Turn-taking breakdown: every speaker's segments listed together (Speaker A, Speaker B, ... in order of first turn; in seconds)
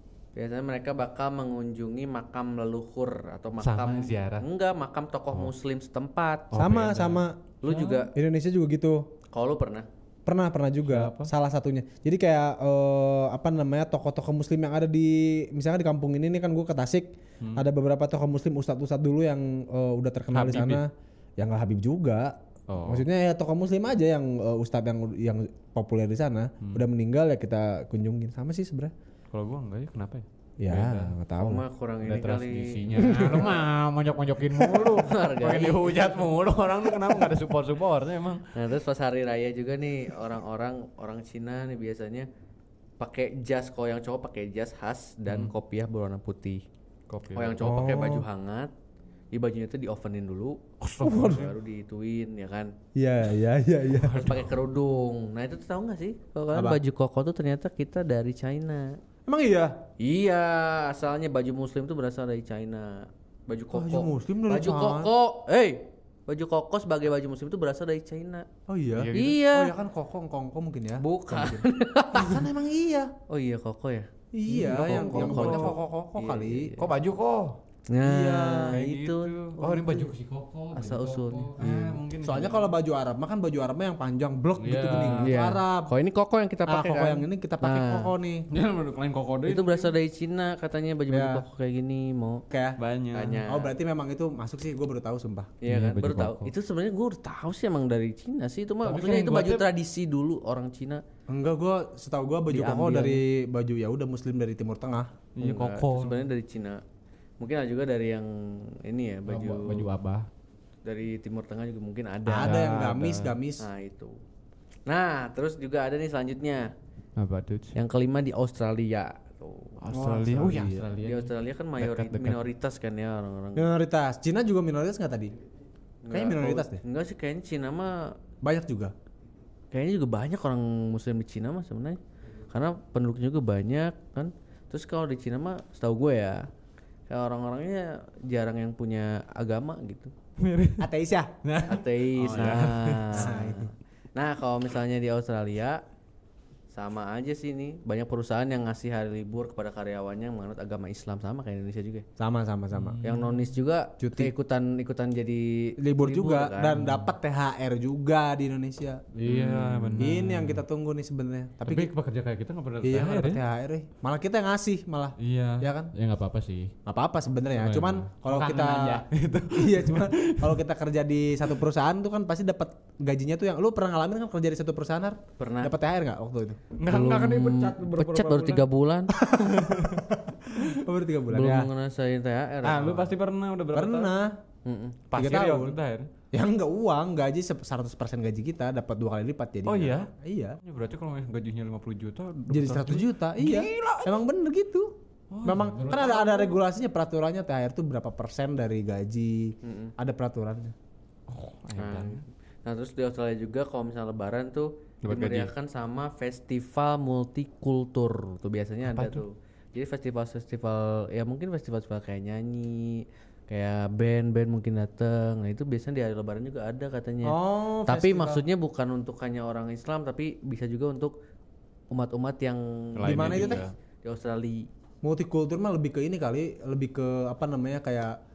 Speaker A: 0.3-6.6, 7.6-8.1, 9.3-9.9, 31.4-32.8, 34.6-36.3, 38.5-42.3, 43.0-46.6, 47.3-48.7, 49.3-52.7, 54.0-59.0, 60.0-68.5, 69.1-69.7, 71.0-72.4, 73.3-76.9, 77.9-80.1, 80.7-82.0, 85.2-88.1, 89.5-92.4, 93.1-93.7, 95.6-101.0, 102.5-103.2, 105.4-106.8, 107.4-109.9, 110.8-112.7, 113.6-114.2, 114.9-116.7, 117.7-119.8, 121.0-123.7, 126.0-128.2, 129.7-132.0, 132.5-136.5, 137.1-140.1, 141.6-145.8, 146.7-152.0, 153.0-157.0, 159.2-160.1, 175.4-175.7, 176.8-179.2, 181.3-183.1, 184.6-185.0, 199.6-199.9, 201.8-221.2, 221.9-224.7
Speaker B: 3.6-4.4, 6.5-8.1, 10.8-11.3, 17.4-17.6, 20.3-20.8, 22.7-23.1, 26.6-26.9, 29.3-31.1, 32.0-38.5, 45.3-45.5, 47.1-47.7, 50.8-51.5, 54.0-54.5, 69.0-69.4, 74.5-75.8, 76.8-77.6, 78.7-82.7, 84.6-85.3, 88.5-89.9, 92.8-93.4, 95.7-96.5, 98.8-99.7, 105.3-106.2, 109.3-110.3, 112.4-113.4, 117.2-117.8, 119.8-122.4, 140.4-140.9, 141.4-143.3, 152.7-153.6, 159.1-160.6, 161.6-163.4, 165.2-166.7, 167.5-170.6, 176.8-178.7, 179.2-180.7, 182.6-184.1, 185.1-186.1, 189.7-190.1, 190.6-194.2, 195.3-196.6, 201.3-202.2, 205.0-205.5, 208.8-209.2, 223.0-223.7
Speaker C: 6.5-7.4, 8.1-9.1, 10.2-28.9, 30.6-31.6, 32.9-33.5, 47.6-48.2, 51.0-51.5, 52.9-54.3, 56.5-56.8, 59.3-59.8, 63.7-65.1, 68.7-73.1, 74.3-76.7, 78.0-78.8, 81.6-85.9, 86.7-88.5, 91.1-91.4, 92.5-92.8, 93.4-95.5, 101.3-105.2, 112.2-113.7, 119.9-120.9, 123.5-125.3, 126.1-126.8, 128.4-128.9, 140.8-141.3, 143.1-143.7, 152.2-153.0, 154.0-154.3, 155.8-161.9, 162.8-165.9, 166.8-176.6, 179.2-181.7, 183.7-184.4, 185.1-185.8, 186.3-190.6, 192.5-200.7, 217.2-218.4, 223.0-223.6, 225.0-228.2